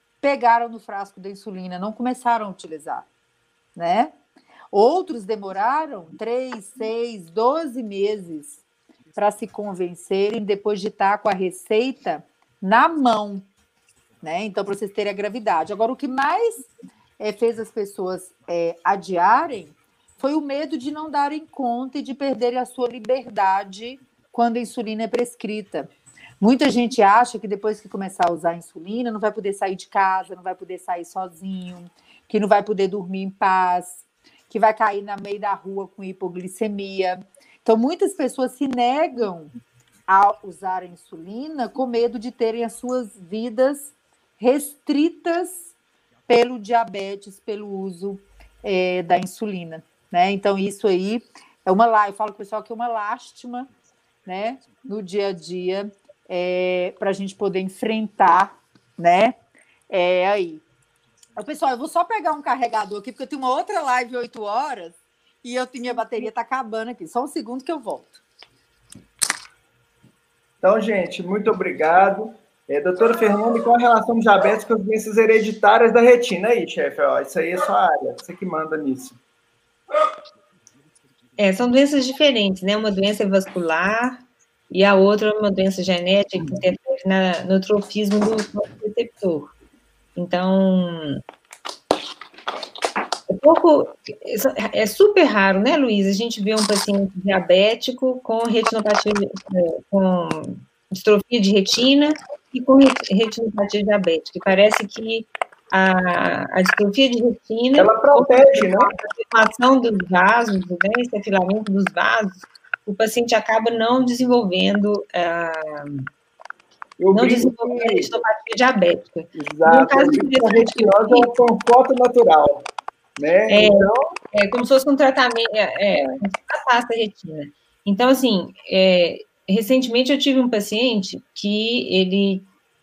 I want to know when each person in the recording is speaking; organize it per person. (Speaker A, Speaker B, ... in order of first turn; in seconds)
Speaker A: 0.2-3.0, 3.8-4.1, 4.7-8.6, 9.2-13.5, 14.2-25.9, 26.4-39.5, 40.1-45.7, 46.3-53.7, 54.3-59.4, 59.9-60.6, 61.4-68.2
Speaker B: 70.6-79.2, 107.8-108.9, 117.0-118.1, 119.3-122.7, 123.2-124.1
Speaker C: 81.4-89.5, 90.2-91.2, 93.3-116.1, 117.1-121.3, 123.5-132.5